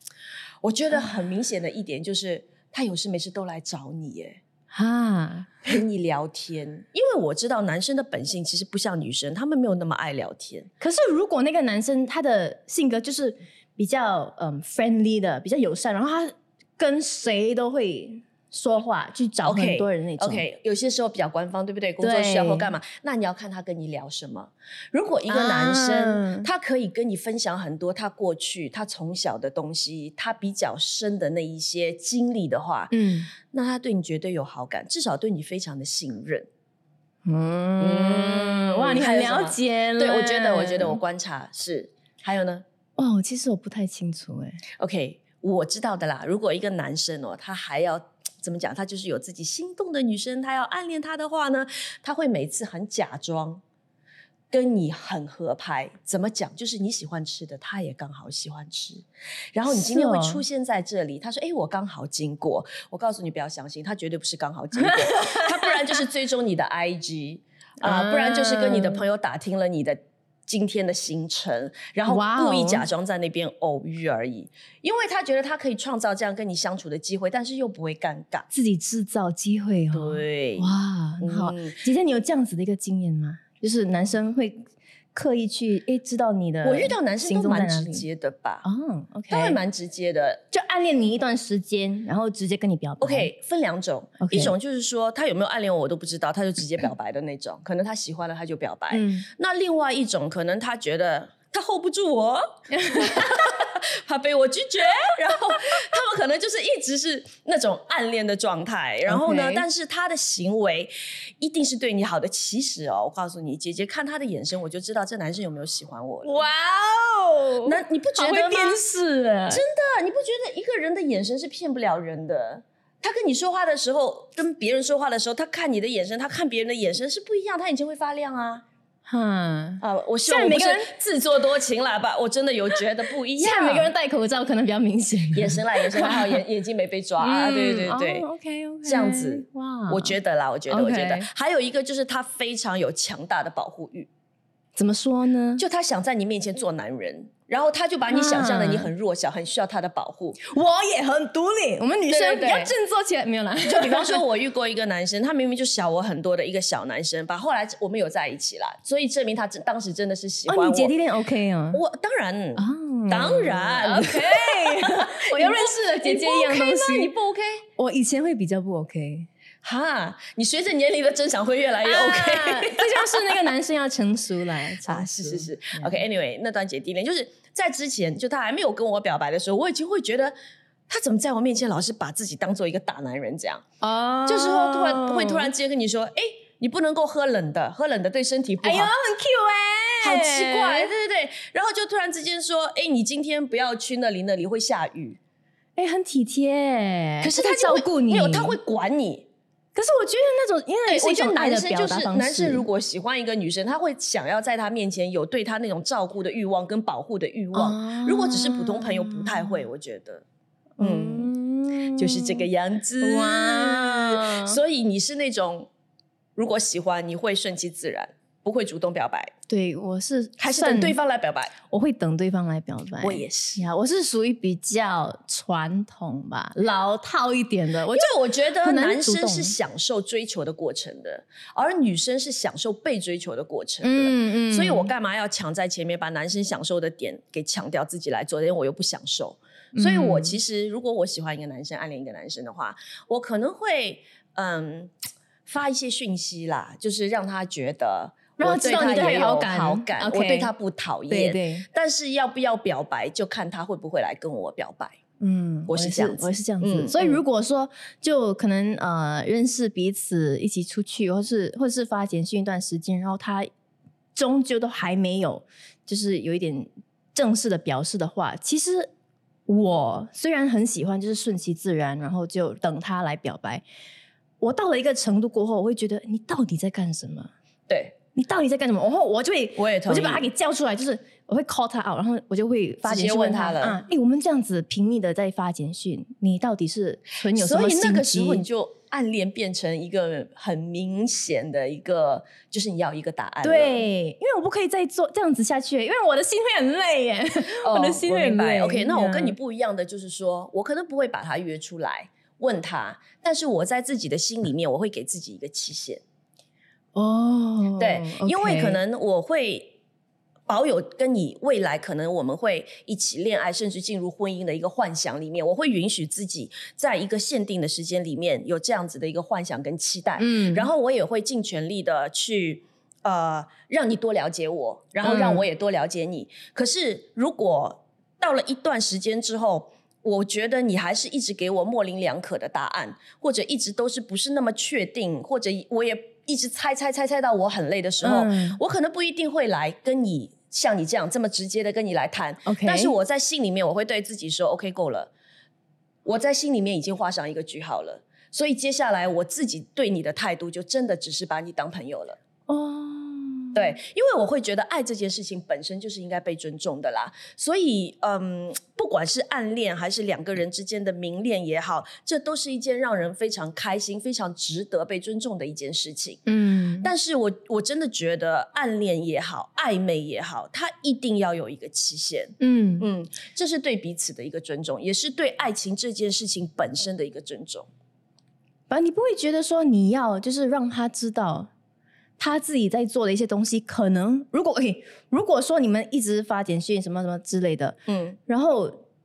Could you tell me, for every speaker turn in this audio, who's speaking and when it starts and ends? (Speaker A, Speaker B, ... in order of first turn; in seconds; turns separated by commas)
Speaker A: 0.6-4.4, Speaker B: 4.7-5.5, Speaker A: 5.6-10.7, Speaker B: 10.8-20.4, Speaker A: 19.4-36.5, Speaker B: 22.0-22.7, Speaker B: 25.3-26.5, Speaker B: 32.9-33.3, Speaker B: 37.2-41.0, Speaker A: 37.8-42.6, Speaker B: 43.0-44.6, Speaker A: 44.8-53.6, Speaker A: 54.5-78.5, Speaker B: 59.7-60.4, Speaker B: 64.8-66.0, Speaker B: 67.8-69.0, Speaker B: 72.1-72.8, Speaker B: 78.5-84.6, Speaker A: 79.9-81.8, Speaker B: 85.1-88.0, Speaker A: 86.6-88.6, Speaker B: 88.6-89.6, Speaker A: 89.3-90.4, Speaker B: 90.5-93.3, Speaker A: 93.0-116.4, Speaker B: 94.2-94.5, Speaker B: 98.9-99.3, Speaker B: 102.7-103.4, Speaker B: 109.1-109.6, Speaker B: 116.2-119.6, Speaker A: 117.6-118.8, Speaker A: 119.5-128.6, Speaker B: 129.1-130.9, Speaker A: 129.8-133.9, Speaker B: 133.4-136.4, Speaker A: 135.3-138.3, Speaker B: 137.2-140.1, Speaker A: 138.8-144.1, Speaker B: 140.7-141.2, Speaker B: 144.8-145.6, Speaker A: 145.6-150.4, Speaker B: 148.1-148.9, Speaker B: 150.4-154.2, Speaker A: 152.1-152.7, Speaker A: 153.6-160.9, Speaker B: 160.5-161.8, Speaker A: 161.7-167.7, Speaker B: 162.6-167.1, Speaker B: 167.8-169.3, Speaker A: 169.6-173.4, Speaker B: 171.8-176.0, Speaker A: 174.9-180.3, Speaker A: 180.9-183.6, Speaker B: 183.8-185.5, Speaker A: 184.3-188.9, Speaker B: 188.6-190.9, Speaker A: 190.0-195.2, Speaker B: 195.8-198.6, Speaker A: 197.2-199.3, Speaker B: 199.7-202.7, Speaker A: 200.9-210.2, Speaker B: 207.5-209.6, Speaker B: 210.8-212.5, Speaker A: 210.8-211.3, Speaker A: 211.9-215.7, Speaker B: 213.0-214.6, Speaker A: 216.3-219.3, Speaker B: 219.5-221.0, Speaker A: 220.4-221.5, Speaker B: 221.7-229.5, Speaker A: 223.0-223.6, Speaker A: 227.9-244.9, Speaker B: 233.8-234.9, Speaker B: 239.7-240.3, Speaker A: 245.4-255.0, Speaker B: 248.4-250.5, Speaker B: 251.1-251.7, Speaker B: 255.2-263.5, Speaker A: 255.7-257.2, Speaker B: 264.1-268.9, Speaker B: 269.5-273.6, Speaker B: 274.4-277.3, Speaker A: 277.7-278.0, Speaker B: 278.1-288.4, Speaker A: 279.6-280.3, Speaker A: 282.8-283.8, Speaker A: 287.3-293.8, Speaker B: 293.4-299.4, Speaker A: 297.5-306.0, Speaker B: 306.9-308.8, Speaker A: 307.8-309.8, Speaker A: 310.5-345.1, Speaker B: 320.2-320.7, Speaker B: 325.0-325.4, Speaker B: 338.0-338.6, Speaker B: 342.4-342.9, Speaker A: 346.0-352.2, Speaker B: 352.5-353.6, Speaker A: 353.5-366.2, Speaker B: 366.3-366.9, Speaker A: 366.8-377.7, Speaker B: 372.4-372.9, Speaker B: 378.7-381.5, Speaker B: 382.2-388.8, Speaker A: 387.9-388.2